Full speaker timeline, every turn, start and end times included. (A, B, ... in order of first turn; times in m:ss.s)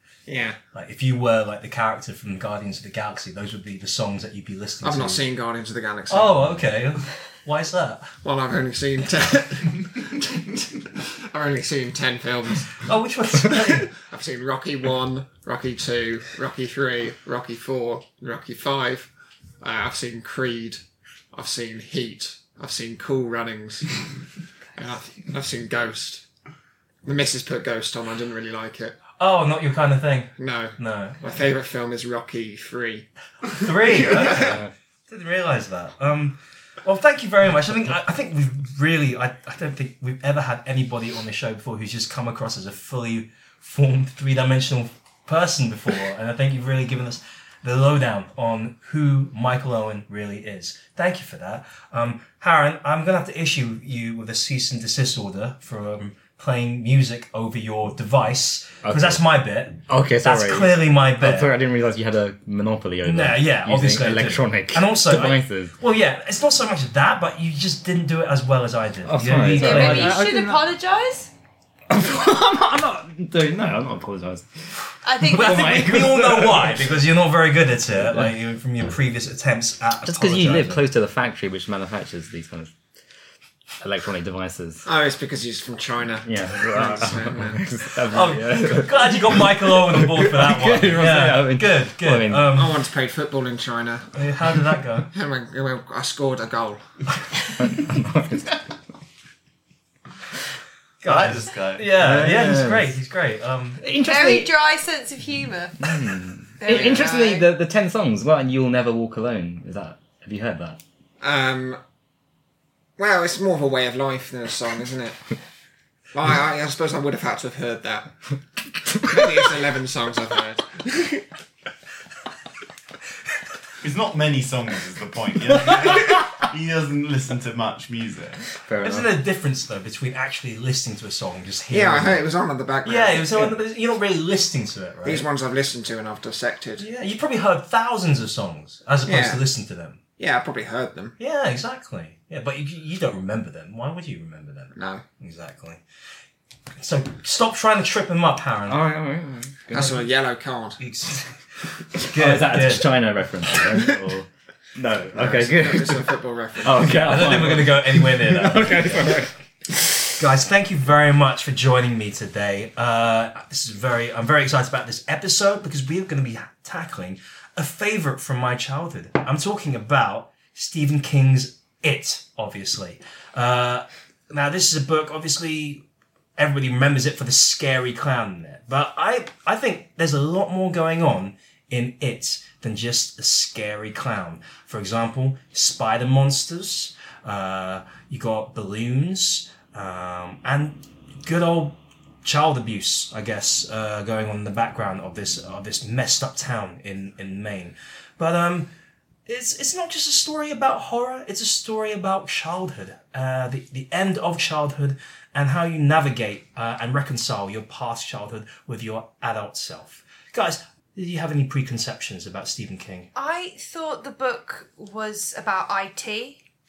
0:00.3-0:00.6 A
0:00.7-0:05.2 B
0:04.8-0:06.5 A
0:06.1-0:08.1 B
0:08.2-0:12.8 A
0:12.8-0:13.9 B
0:13.9-0:19.1 A
0:19.6-0:20.8 A
0:21.3-0:24.0 A
0:24.7-0:26.2 A
0:27.0-0:29.0 A
0:29.2-0:31.4 B
0:30.4-0:33.1 A
0:33.5-1:01.5 B
0:33.6-0:34.5 A
0:58.8-0:59.2 C
0:59.9-1:05.7 C
1:03.0-1:10.2 B
1:09.0-1:10.6 C
1:09.5-1:11.3 D
1:11.9-1:16.9 C
1:15.0-1:15.9 D
1:15.2-1:20.8 B
1:20.0-1:22.8 C
1:23.8-1:24.8 C
1:24.8-1:27.6 A
1:26.3-1:32.5 C
1:28.0-1:32.8 B
1:32.5-1:34.1 A
1:34.1-1:35.1 B
1:35.1-1:36.8 A
1:37.6-1:38.6 C
1:41.0-1:43.8 B
1:41.0-1:41.9 E
1:42.0-1:42.9 C
1:43.8-1:44.5 C
1:44.0-1:45.9 D
1:45.8-1:50.8 C
1:46.6-1:47.4 D
1:51.2-1:51.8 A
1:53.0-1:55.2 A
1:56.1-1:58.2 A
1:58.9-2:01.2 A
2:03.8-2:08.5 E
2:08.6-2:09.1 C
2:08.8-2:12.2 B
2:11.7-2:13.6 A
2:12.8-2:15.2 B
2:15.0-2:16.9 A
2:16.8-2:20.0 B
2:19.0-2:19.4 A
2:20.2-2:21.2 A
2:21.2-2:25.8 B
2:24.7-2:25.0 A
2:26.8-2:28.8 B
2:28.7-2:29.6 C
2:29.7-2:30.0 B
2:29.7-2:30.8 A
2:30.8-2:31.4 B
2:32.0-2:36.1 C
2:32.0-2:32.9 B
2:35.1-2:37.4 A
2:36.6-2:40.2 C
2:37.0-2:39.3 B
2:40.2-2:55.8 B
2:56.4-3:18.7 B
3:19.2-3:33.1 B
3:33.1-3:36.4 D